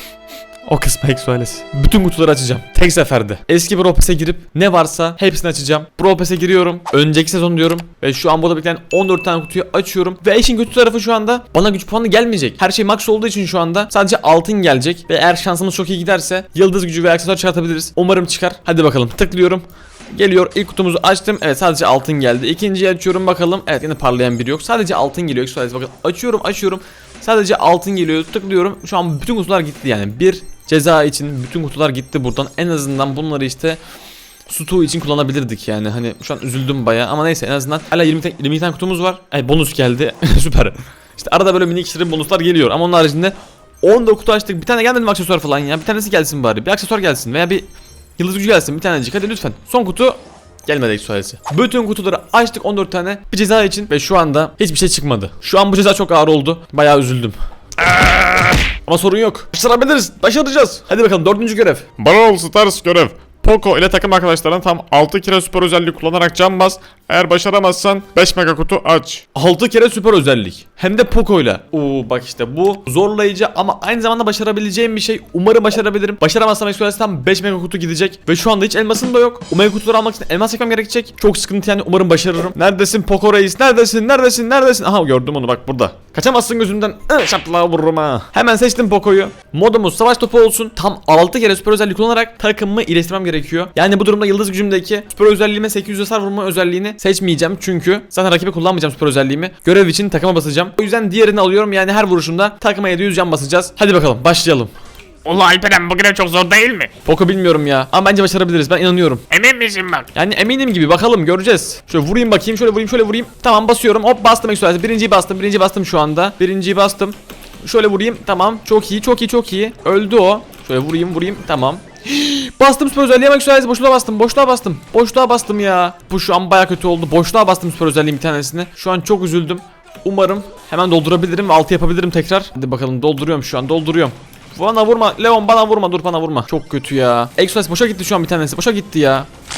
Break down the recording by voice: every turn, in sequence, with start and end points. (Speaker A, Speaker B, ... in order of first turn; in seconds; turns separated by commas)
Speaker A: 0.7-33.8, Speaker A: 34.5-47.7, Speaker A: 48.2-61.9, Speaker B: 62.0-63.5, Speaker A: 63.4-67.2, Speaker B: 65.0-65.5, Speaker B: 67.1-69.2, Speaker A: 69.3-104.7, Speaker C: 105.2-106.9, Speaker A: 107.0-109.3, Speaker C: 109.3-110.0, Speaker A: 110.1-139.3